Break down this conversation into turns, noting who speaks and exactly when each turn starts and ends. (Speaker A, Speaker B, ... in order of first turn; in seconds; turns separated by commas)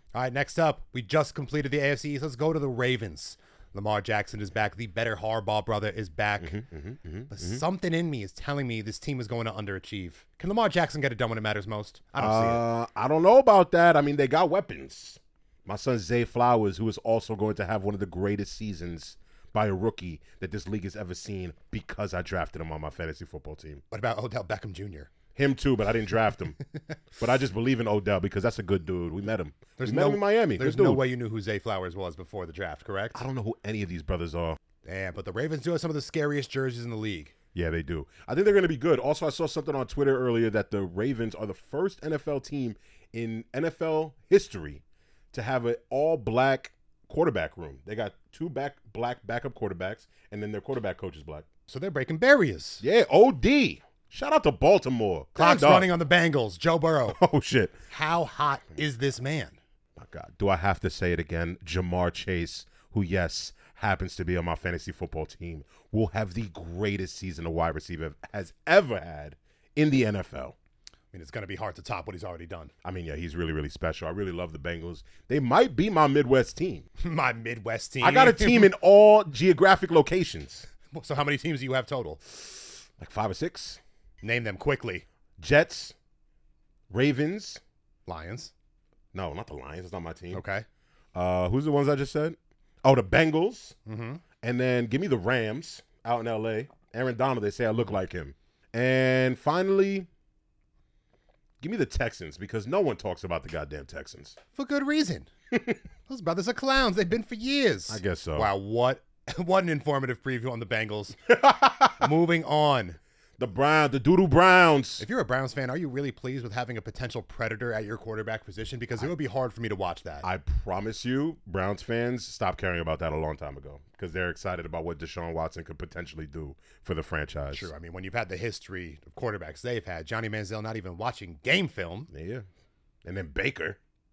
Speaker A: 0.1-6.6, Speaker B: 6.4-7.6, Speaker A: 7.3-12.6, Speaker B: 12.2-23.8, Speaker A: 23.9-25.1, Speaker B: 25.3-26.6, Speaker B: 27.2-31.0, Speaker A: 29.8-33.2, Speaker B: 33.1-34.6, Speaker A: 34.8-37.3, Speaker B: 37.5-51.5, Speaker A: 51.7-52.8, Speaker B: 52.8-55.9, Speaker A: 55.4-57.2, Speaker B: 57.1-57.8, Speaker A: 57.9-59.6, Speaker B: 60.0-70.5, Speaker A: 71.1-72.7, Speaker B: 72.8-76.9, Speaker A: 77.0-78.7, Speaker B: 78.0-80.7, Speaker A: 80.9-82.8, Speaker B: 83.0-83.8, Speaker A: 84.2-85.0, Speaker B: 85.4-86.0, Speaker B: 86.9-87.6, Speaker A: 88.0-88.5, Speaker B: 89.1-90.4, Speaker A: 90.3-90.7, Speaker B: 91.1-93.8, Speaker A: 93.8-94.2, Speaker B: 94.4-100.1, Speaker B: 101.6-104.4, Speaker A: 104.5-105.3, Speaker A: 106.1-111.2, Speaker B: 107.9-108.5, Speaker B: 111.3-112.0, Speaker A: 111.9-113.0, Speaker B: 113.4-115.0, Speaker A: 115.0-120.2, Speaker B: 120.2-127.7, Speaker A: 127.5-132.1, Speaker B: 132.1-132.4, Speaker B: 133.0-133.8